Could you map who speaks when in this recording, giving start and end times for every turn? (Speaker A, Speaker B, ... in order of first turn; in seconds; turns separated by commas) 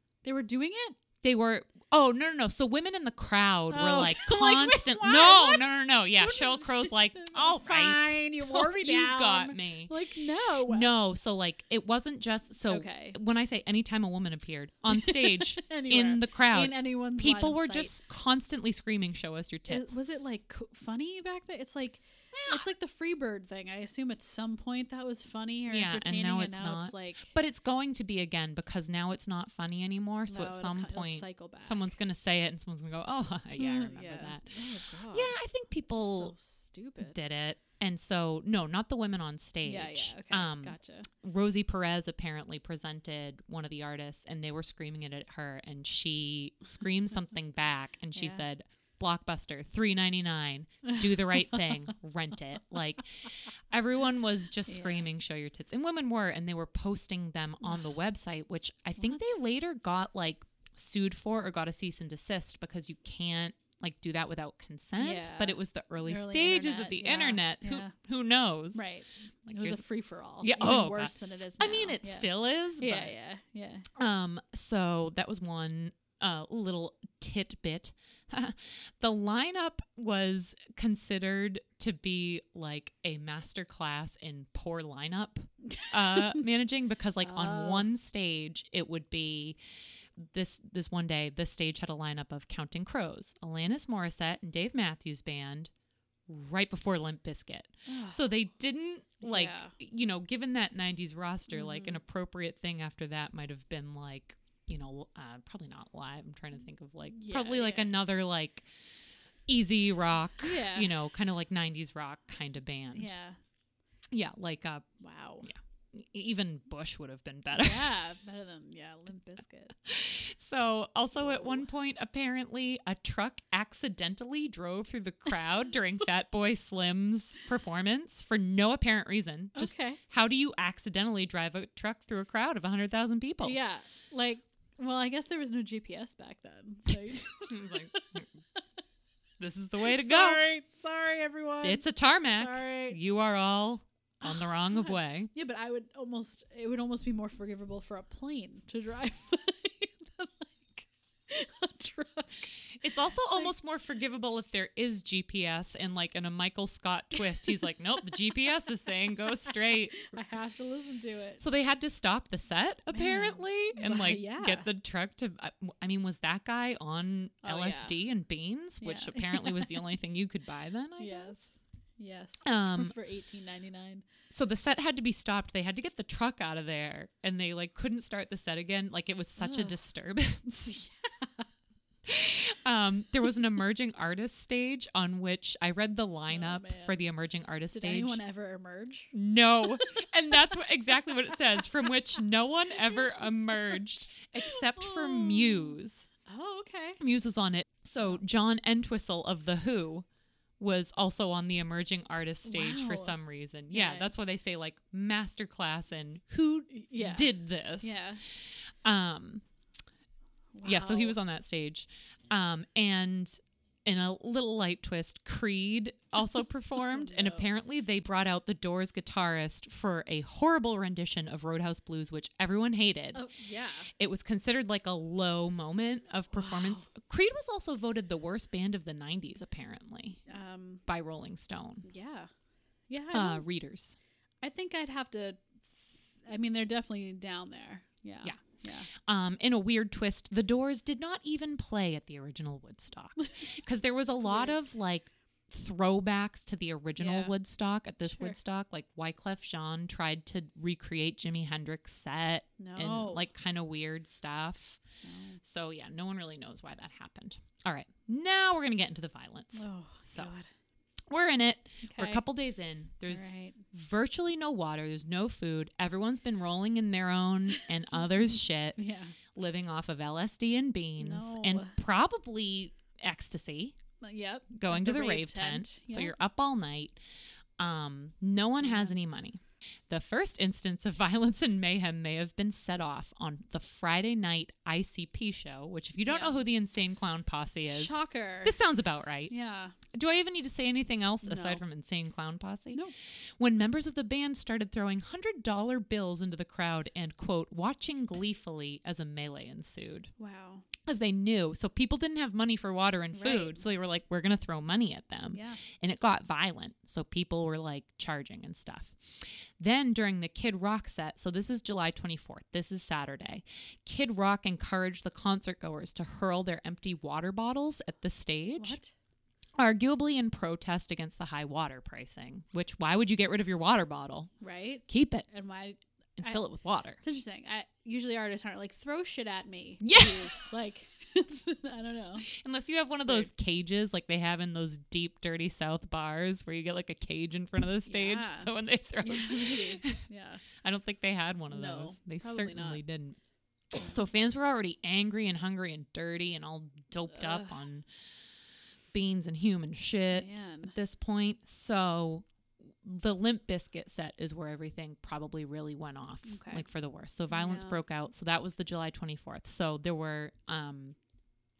Speaker A: 0.2-1.0, Speaker B: 1.2-9.9, Speaker A: 3.7-10.9, Speaker B: 10.7-19.9, Speaker A: 12.7-13.2, Speaker A: 14.9-18.0, Speaker A: 19.7-27.3, Speaker B: 22.3-22.6, Speaker B: 25.7-34.5, Speaker A: 30.3-31.8, Speaker A: 33.6-35.4, Speaker B: 35.1-36.3, Speaker A: 35.9-37.2, Speaker B: 37.0-68.9, Speaker A: 39.6-41.1, Speaker A: 48.1-48.4, Speaker A: 50.8-51.6, Speaker A: 54.7-55.1, Speaker A: 65.0-67.9, Speaker A: 68.7-73.9, Speaker B: 69.5-69.8, Speaker B: 70.4-73.1, Speaker B: 73.9-89.6, Speaker A: 85.7-86.4, Speaker A: 87.2-87.9, Speaker B: 90.2-95.7, Speaker B: 96.3-108.7, Speaker A: 97.9-98.2, Speaker A: 99.2-99.7, Speaker A: 101.5-102.0, Speaker A: 107.1-107.9, Speaker B: 109.5-113.1, Speaker A: 110.4-110.9, Speaker A: 112.9-113.4, Speaker B: 114.1-114.9, Speaker A: 115.0-115.5, Speaker B: 115.4-117.9, Speaker A: 117.5-119.7, Speaker B: 119.9-133.6, Speaker A: 129.5-130.0, Speaker A: 133.4-138.0, Speaker B: 137.4-138.3, Speaker B: 139.4-140.4, Speaker A: 139.8-143.0, Speaker B: 141.6-145.3, Speaker A: 144.2-152.7, Speaker B: 152.7-160.1, Speaker A: 159.5-161.4, Speaker B: 161.4-171.4, Speaker A: 162.9-164.7, Speaker A: 167.4-167.9, Speaker A: 168.8-169.8, Speaker A: 171.0-174.1, Speaker B: 172.4-172.9, Speaker B: 174.3-180.8, Speaker A: 179.4-179.7, Speaker A: 180.7-181.5, Speaker B: 182.0-188.2, Speaker A: 186.3-187.0, Speaker A: 187.7-189.1, Speaker B: 189.1-196.1, Speaker A: 191.3-191.6, Speaker A: 194.4-197.0, Speaker B: 197.0-200.1, Speaker B: 200.6-208.0, Speaker A: 202.4-203.2, Speaker A: 203.7-204.1, Speaker A: 206.7-208.2, Speaker B: 208.8-209.4, Speaker A: 210.5-211.2, Speaker B: 210.6-223.2, Speaker A: 216.8-217.5, Speaker A: 223.1-223.9, Speaker B: 224.0-230.2, Speaker A: 226.3-226.9, Speaker A: 230.3-230.8, Speaker B: 230.9-231.9, Speaker A: 231.8-232.3, Speaker A: 232.9-233.4, Speaker B: 233.1-234.0, Speaker A: 234.4-238.9, Speaker B: 238.9-254.8, Speaker A: 244.2-244.6, Speaker A: 247.0-247.3, Speaker A: 248.0-248.4, Speaker A: 252.6-253.2, Speaker A: 255.0-255.4, Speaker B: 255.4-260.3, Speaker A: 259.5-260.5, Speaker B: 261.1-268.8, Speaker A: 261.8-262.2, Speaker A: 263.1-263.6, Speaker A: 268.8-269.1, Speaker B: 269.3-273.8, Speaker A: 271.0-271.8, Speaker A: 274.0-276.1, Speaker B: 274.5-277.0, Speaker B: 277.6-289.3, Speaker A: 278.6-278.9, Speaker A: 286.1-286.4, Speaker A: 287.7-288.5, Speaker A: 289.3-289.8, Speaker B: 289.9-292.8, Speaker A: 291.2-291.6, Speaker B: 293.4-300.1, Speaker A: 300.2-300.7, Speaker B: 300.8-318.8, Speaker A: 303.1-303.6, Speaker A: 305.3-305.6, Speaker A: 318.6-318.9, Speaker B: 319.6-324.3, Speaker A: 324.4-326.4, Speaker B: 324.9-325.3, Speaker B: 326.2-327.0, Speaker A: 327.0-332.3, Speaker B: 329.8-330.4, Speaker B: 332.2-340.0, Speaker A: 337.9-338.5, Speaker A: 339.0-340.4, Speaker B: 340.6-343.2, Speaker A: 341.5-342.8, Speaker B: 343.7-347.8, Speaker A: 347.2-347.5, Speaker B: 348.9-352.2, Speaker A: 350.1-350.7, Speaker B: 352.8-361.0, Speaker A: 356.2-356.6, Speaker A: 357.3-357.8